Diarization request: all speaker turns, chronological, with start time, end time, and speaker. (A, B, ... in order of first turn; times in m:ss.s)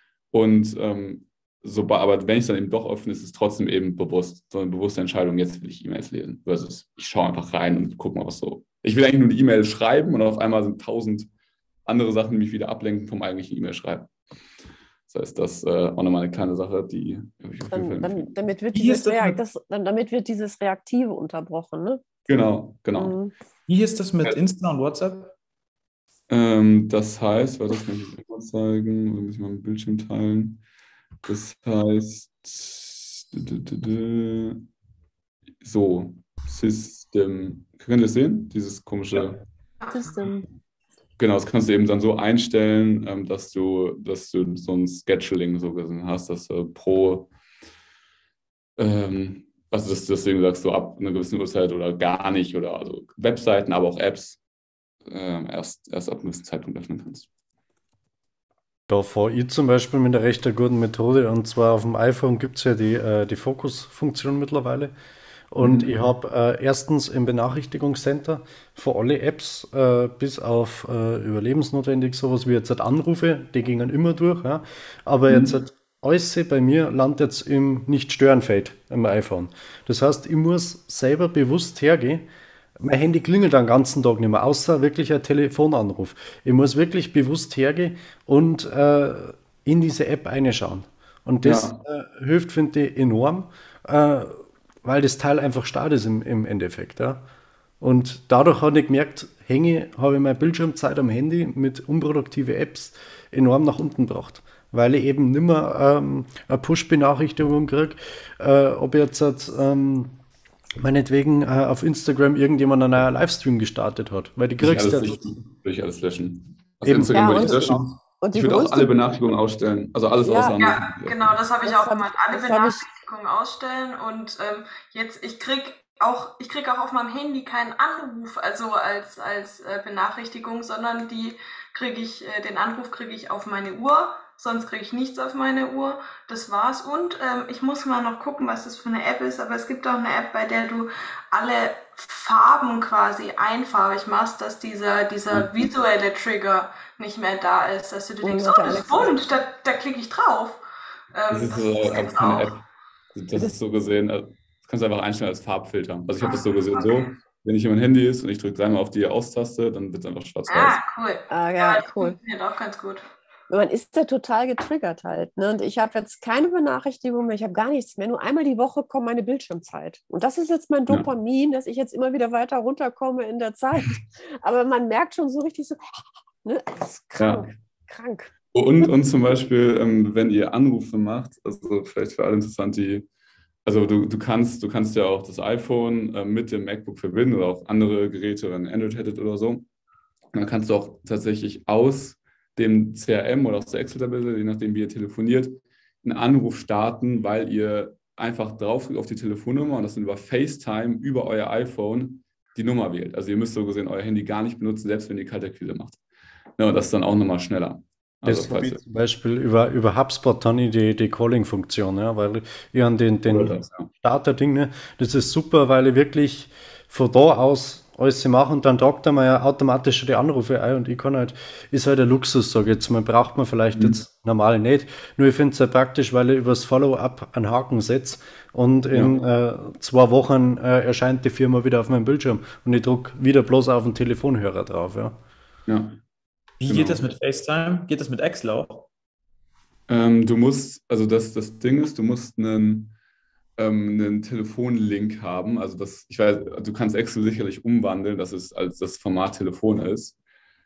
0:00.3-0:11.3 A
0:11.9-0:14.1 A
0:15.1-0:18.4 A
0:17.7-0:22.0 B
0:18.7-0:19.4 C
0:22.3-0:23.2 A
0:23.0-0:23.3 B
0:23.7-0:25.3 C
0:26.3-0:30.6 A
0:31.2-0:34.6 A
0:35.6-0:39.4 A
0:39.9-0:40.5 B
0:41.2-0:47.3 A
0:48.8-0:54.4 A
0:55.1-0:57.3 A
0:58.9-1:04.9 D
1:05.5-1:22.2 D
1:05.6-1:06.1 A
1:15.3-1:15.6 A
1:22.8-1:37.2 D
1:31.4-1:31.8 A
1:37.8-1:50.2 D
1:50.8-1:55.3 D
1:54.6-2:01.4 A
1:56.8-1:57.9 D
1:57.1-1:58.9 B
2:00.2-2:00.6 B
2:00.6-2:32.5 E
2:01.6-2:02.8 B
2:28.2-2:29.2 B
2:31.3-2:40.8 A
2:36.2-2:36.9 E
2:40.5-2:43.1 E
2:41.3-2:42.2 B
2:43.5-2:55.8 B
2:56.4-2:58.3 B
2:57.2-2:57.5 A
2:58.5-3:03.1 A
3:03.7-3:09.7 A
3:10.3-3:26.0 A
3:26.6-3:28.8 A
3:28.2-3:55.2 D
3:33.3-3:33.9 A
3:55.7-3:56.0 A
3:56.6-3:58.9 C
3:56.6-3:57.1 A
3:59.9-4:03.0 A
4:03.6-4:10.2 A